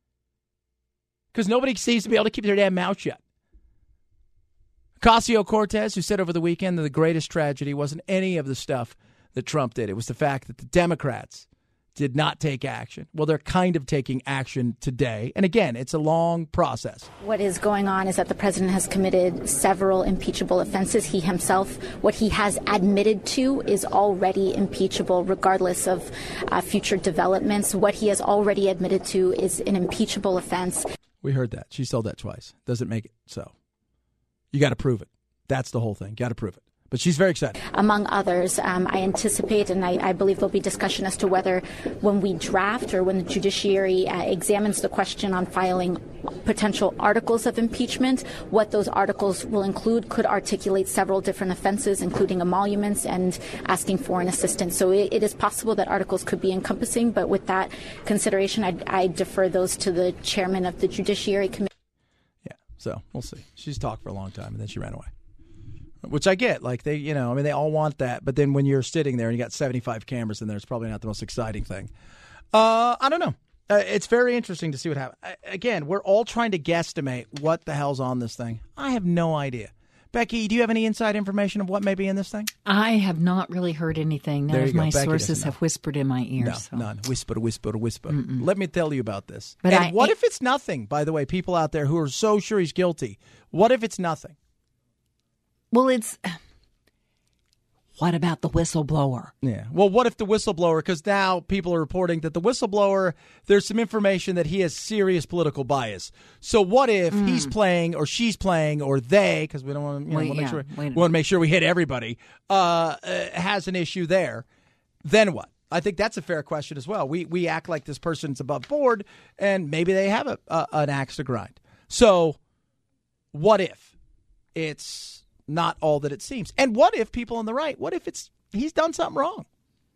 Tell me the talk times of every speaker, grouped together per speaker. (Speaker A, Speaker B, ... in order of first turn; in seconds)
Speaker A: 1.3-3.2, 5.0-17.1, 31.2-33.5, 34.5-37.6, 62.4-65.1, 66.0-71.9, 72.5-82.5, 84.5-85.6, 86.4-94.3, 99.4-114.5, 115.0-122.4, 123.3-123.9, 124.5-129.5
Speaker B: 17.2-30.8, 37.7-61.7
Speaker C: 82.7-86.8, 88.1-88.5, 89.6-90.2, 95.7-96.4, 98.0-99.3, 107.1-107.5, 110.1-111.1